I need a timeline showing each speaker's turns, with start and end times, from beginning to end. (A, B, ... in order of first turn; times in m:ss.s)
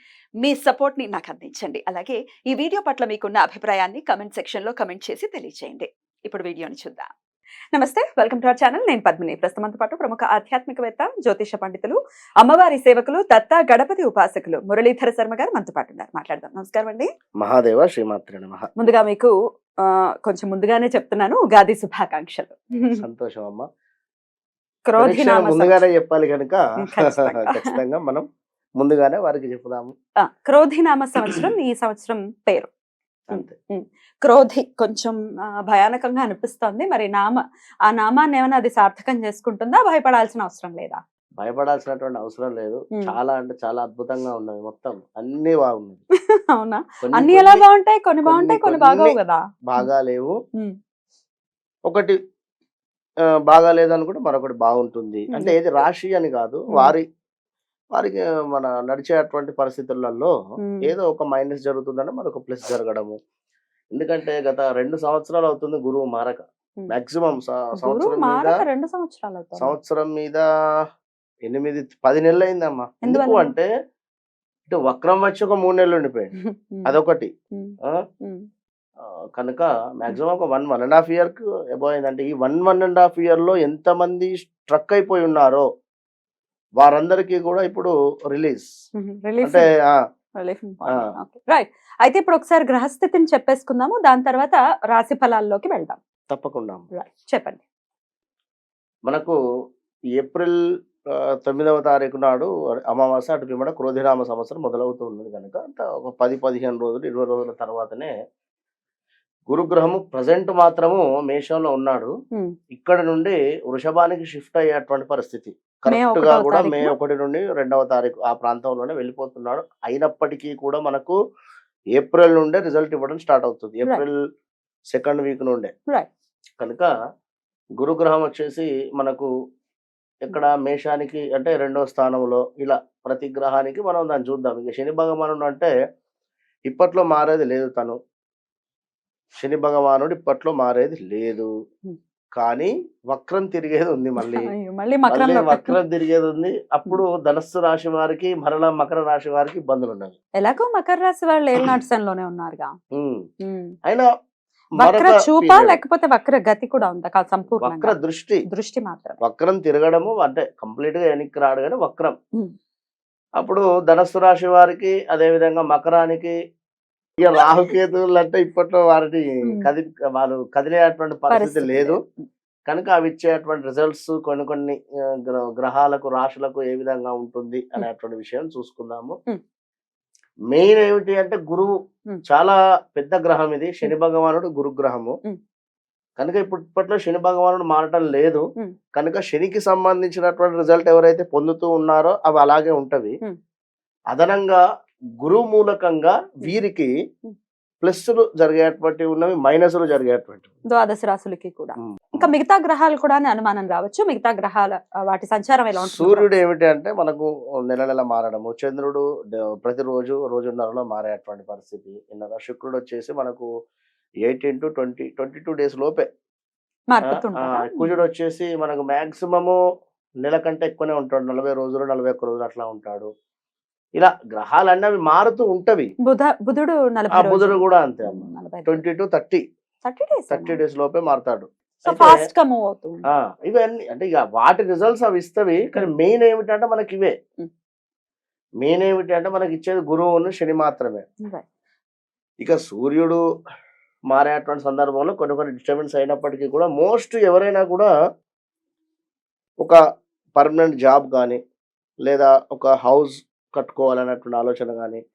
0:00.4-0:07.1 A
0:07.7-0:17.1 A
0:17.4-0:18.7 B
0:18.8-0:19.3 A
0:19.8-0:23.0 A
0:22.9-0:23.6 B
0:24.8-0:25.8 A
0:25.0-0:28.2 B
0:26.8-0:27.8 A
0:28.8-0:29.9 B
0:30.2-0:32.7 A
0:33.3-0:41.0 A
0:41.4-0:46.0 B
0:46.5-0:49.9 A
0:47.0-0:47.6 B
0:48.2-0:49.2 B
0:49.7-0:50.3 B
0:51.9-0:52.1 B
0:53.5-0:57.0 B
0:55.3-0:55.6 A
0:58.0-1:00.3 B
1:00.6-1:00.9 A
1:00.8-1:03.2 B
1:03.9-1:08.6 B
1:07.8-1:09.7 A
1:09.6-1:10.4 B
1:11.5-1:13.7 B
1:13.0-1:13.5 A
1:14.7-1:16.3 B
1:16.4-1:16.9 A
1:16.8-1:17.3 B
1:17.5-1:18.4 A
1:19.3-1:25.6 B
1:26.8-1:28.7 B
1:29.0-1:29.6 A
1:29.4-1:30.0 B
1:30.4-1:36.0 A
1:36.3-1:36.8 B
1:36.9-1:37.6 A
1:39.1-1:39.4 B
1:40.2-1:40.6 B
1:41.4-1:48.1 B
1:49.5-1:52.1 B
1:52.7-2:01.2 B
1:55.9-1:57.0 A
2:01.9-2:04.1 B
2:04.9-2:05.7 B
2:06.6-2:06.9 B
2:07.8-2:09.3 B
2:10.2-2:15.7 B
2:16.7-2:18.0 B
2:19.4-2:21.5 B
2:22.4-2:24.5 B
2:24.2-2:25.8 A
2:25.1-2:30.2 B
2:30.4-2:32.7 A
2:32.9-2:33.2 B
2:33.4-2:33.7 A
2:34.8-2:38.0 A
2:34.8-2:35.8 B
2:37.5-2:38.4 B
2:38.5-2:39.2 A
2:39.2-2:42.1 B
2:43.4-2:46.3 B
2:47.2-2:52.0 B
2:47.3-2:47.7 A
2:49.4-2:49.7 A
2:51.3-2:52.3 A
2:52.7-2:59.1 B
3:00.5-3:01.7 B
3:02.3-3:05.1 B
3:06.2-3:08.4 B
3:08.9-3:13.1 B
3:14.1-3:14.6 B
3:15.2-3:16.9 B
3:17.8-3:20.5 B
3:20.7-3:26.4 A
3:25.8-3:33.5 B
3:34.2-3:36.0 B
3:36.9-3:38.0 A
3:37.1-3:39.6 B
3:40.2-3:43.1 B
3:44.0-3:45.9 B
3:46.0-3:48.8 A
3:47.1-3:49.4 B
3:49.8-3:50.6 A
3:50.3-3:52.2 B
3:51.8-3:53.0 A
3:53.1-3:57.1 B
3:58.6-4:01.0 B
4:02.4-4:03.2 B
4:04.1-4:07.9 B
4:10.4-4:11.4 B
4:12.0-4:15.0 B